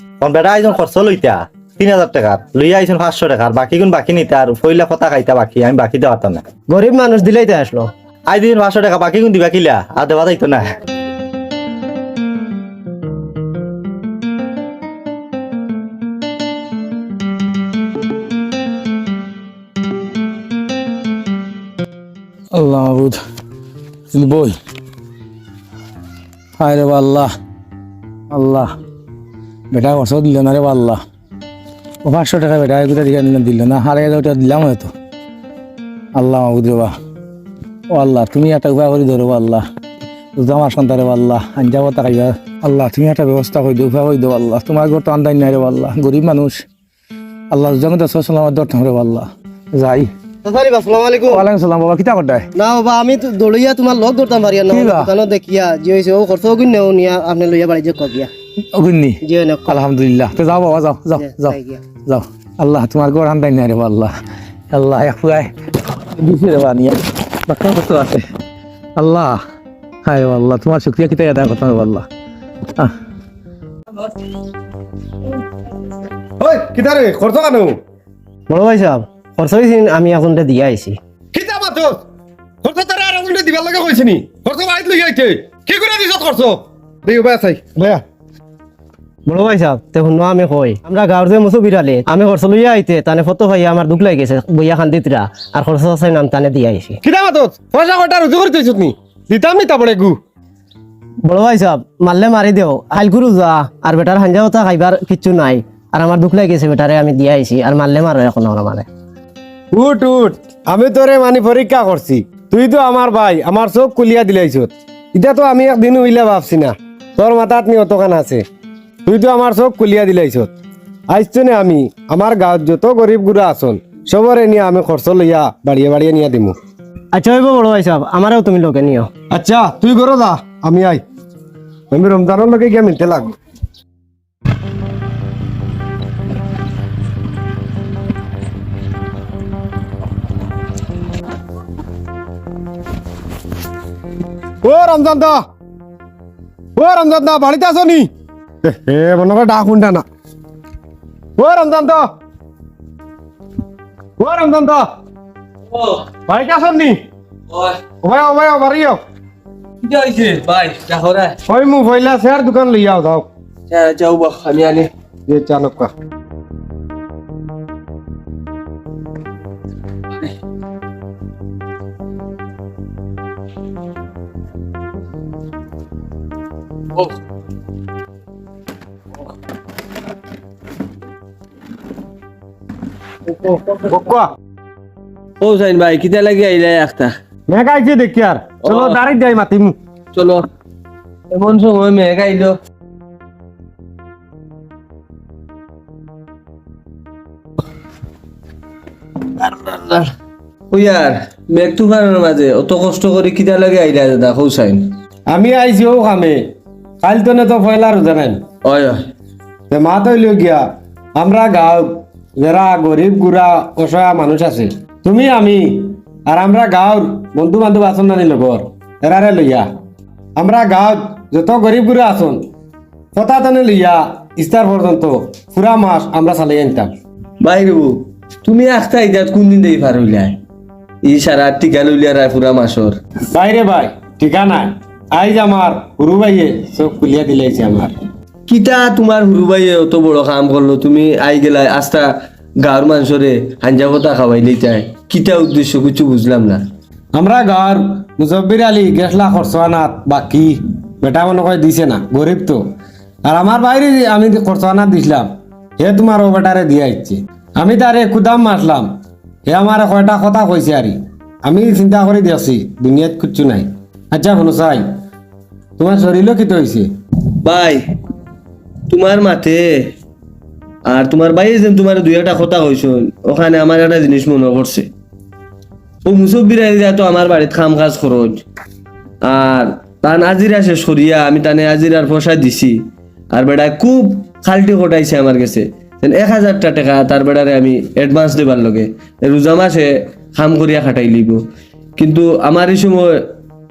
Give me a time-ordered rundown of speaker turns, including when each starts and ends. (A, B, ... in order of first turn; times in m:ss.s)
0:00.2-0:06.4 A
0:06.7-0:07.9 B
0:08.3-0:10.7 A
0:22.5-0:23.2 C
0:24.1-0:24.6 C
0:26.6-0:27.3 C
0:28.3-0:28.7 C
0:29.7-0:31.0 C
0:32.0-0:34.9 C
0:36.2-0:37.0 C
0:37.9-0:39.6 C
0:40.4-0:46.6 C
0:47.5-0:50.1 C
0:50.4-0:51.4 B
0:51.3-0:52.5 C
0:52.6-0:58.3 B
0:54.7-0:55.1 C
0:58.7-1:04.1 C
0:59.2-0:59.8 B
1:01.2-1:01.8 B
1:04.7-1:05.5 C
1:06.0-1:08.3 C
1:09.0-1:09.4 C
1:10.0-1:12.1 C
1:16.4-1:17.8 D
1:18.5-1:21.0 B
1:21.3-1:22.0 D
1:22.6-1:28.0 D
1:29.3-1:37.0 B
1:37.0-1:40.2 D
1:41.2-1:48.9 B
1:49.7-1:58.4 D
1:59.1-2:00.5 D
2:01.1-2:06.6 D
2:07.1-2:09.1 B
2:09.3-2:11.0 D
2:11.9-2:13.4 D
2:24.6-2:25.4 D
2:26.8-2:28.1 D
2:28.6-2:30.0 D
2:31.4-2:32.1 D
2:34.2-2:34.9 D
2:35.7-2:36.0 E
2:36.3-2:37.0 D
2:37.5-2:37.8 E
2:38.0-2:39.0 D
2:39.8-2:41.4 E
2:41.5-2:43.3 D
2:43.7-2:44.9 E
2:45.3-2:45.9 D
3:03.4-3:04.3 D
3:05.4-3:07.1 E
3:07.5-3:09.8 D
3:08.6-3:09.0 E
3:10.2-3:10.4 E
3:11.3-3:12.6 E
3:19.4-3:20.1 E
3:20.7-3:24.9 E
3:25.3-3:26.5 D
3:27.0-3:28.4 D
3:28.6-3:29.0 E
3:29.7-3:30.6 D
3:31.2-3:39.7 D
3:40.4-3:42.5 D
3:43.1-3:46.9 D
3:47.4-3:50.4 E
3:51.0-3:53.0 E
3:53.3-3:58.0 D
3:58.5-4:02.1 E
4:02.6-4:06.6 E
4:07.2-4:12.6 D
4:13.3-4:18.9 D
4:19.5-4:25.0 D
4:25.8-4:26.9 D
4:27.4-4:27.8 E
4:28.9-4:29.9 E
4:30.9-4:34.9 E
4:36.1-4:38.4 E
4:39.2-4:42.8 E
4:43.3-4:51.4 E
4:52.0-4:53.3 E